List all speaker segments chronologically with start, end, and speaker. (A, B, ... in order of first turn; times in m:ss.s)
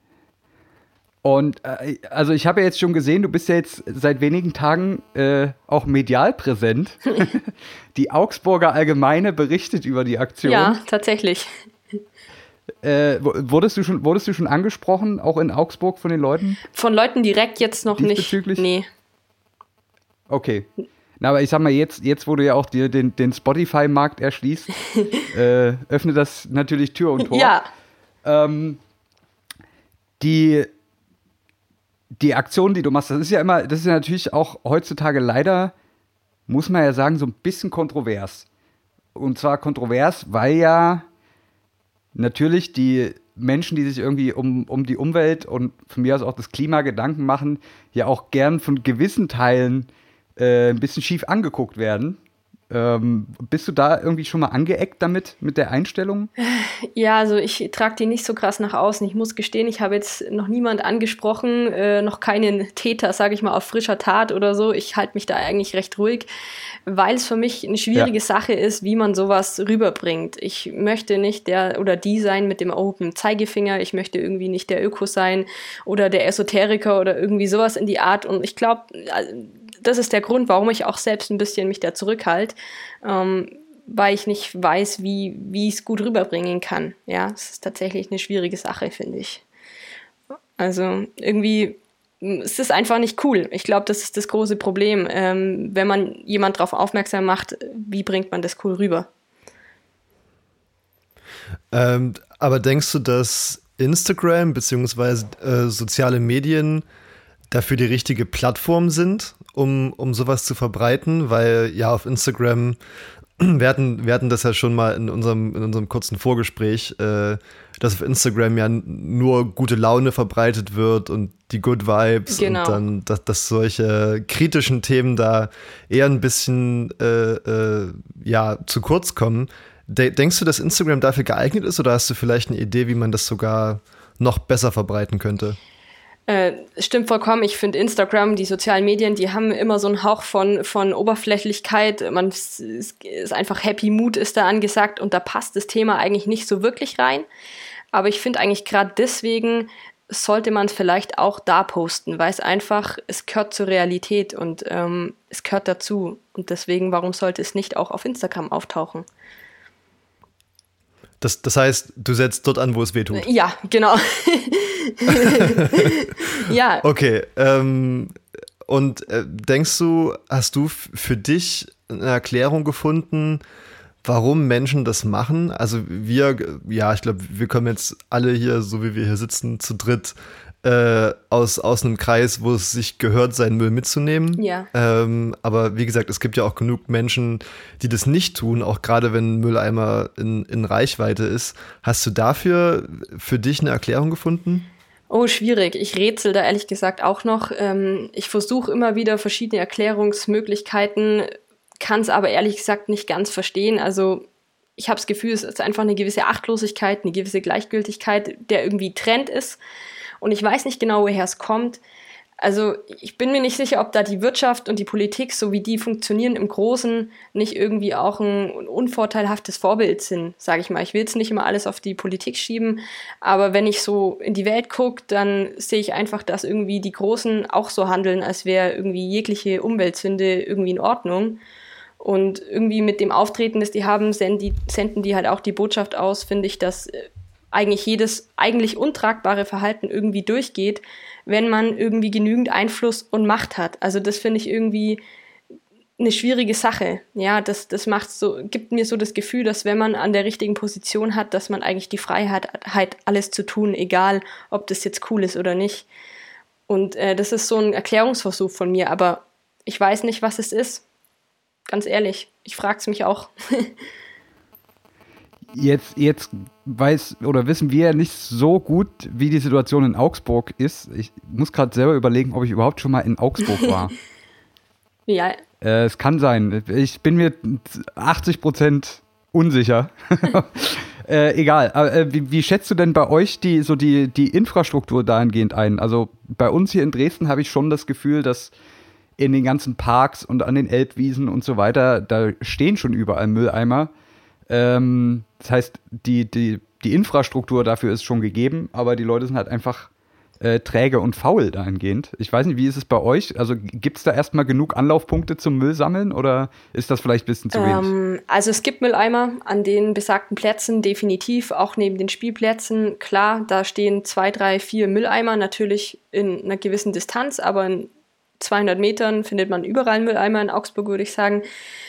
0:01.2-0:10.7 A
0:10.4-0:12.0 B
0:12.8-0:16.6 A
0:16.7-0:18.9 B
0:18.0-0:18.6 A
0:20.3-0:20.7 A
0:21.2-0:24.7 A
0:25.0-0:25.2 B
0:25.3-0:27.5 A
0:27.2-0:27.6 B
0:28.2-0:28.8 A
0:30.2-0:30.7 A
0:32.2-0:35.7 A
0:36.5-0:38.5 A
0:39.2-0:41.1 A
0:42.2-0:52.2 A
0:52.7-0:56.3 A
0:56.4-1:06.3 B
1:06.9-1:29.4 B
1:30.6-1:39.1 B
1:41.7-1:46.8 C
1:47.5-1:52.8 C
1:53.4-2:15.6 C
2:02.3-2:02.8 B
2:16.3-2:27.3 B
2:27.9-2:39.1 B
2:41.2-2:43.3 C
2:43.1-2:46.9 B
2:45.1-2:46.1 C
2:46.8-2:53.4 C
2:54.0-3:14.7 C
3:04.4-3:04.7 B
3:15.1-3:24.3 B
3:24.8-3:29.6 B
3:30.2-3:31.8 B
3:32.4-3:51.4 B
3:52.0-4:05.0 B
4:06.0-4:15.9 B
4:16.7-4:20.8 B
4:21.7-4:23.7 B
4:25.5-4:34.0 A
4:35.1-4:35.4 B
4:35.6-4:48.5 A
4:49.2-4:53.9 A
4:54.5-4:59.9 A
5:00.4-5:07.9 A
5:07.5-5:21.4 B